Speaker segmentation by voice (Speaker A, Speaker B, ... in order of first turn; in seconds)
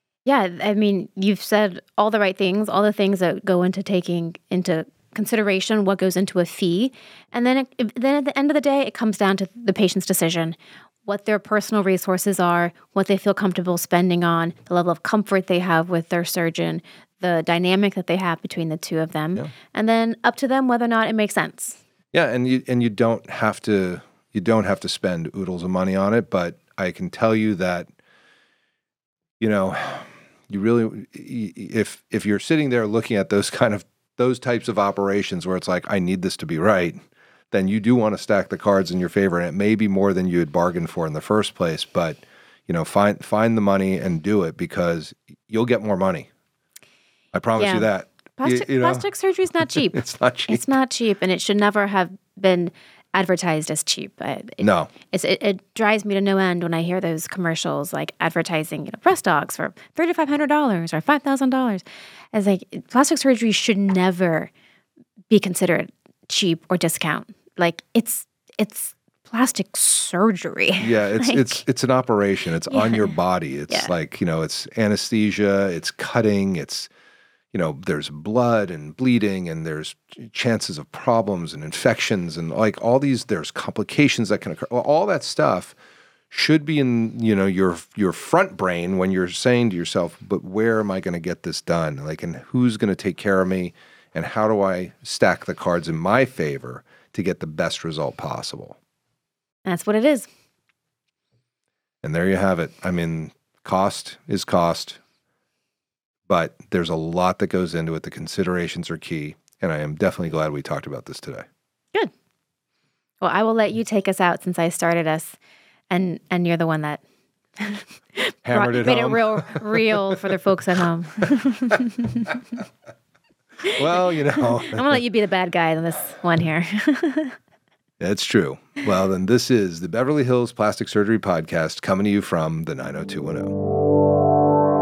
Speaker A: 0.2-21.8, 47.6-64.5, 65.3-71.6, 72.7-73.1, 99.6-100.3, 113.2-115.4, 115.9-117.0, 117.6-122.4, 124.4-127.3
Speaker B: 22.1-27.9, 29.4-37.0, 37.5-46.3, 47.3-49.0, 49.6-50.7, 54.6-54.9, 70.8-76.9, 77.5-85.7, 86.3-98.8, 102.0-105.0, 106.3-111.5, 118.4-120.2, 123.7-125.0, 128.0-133.6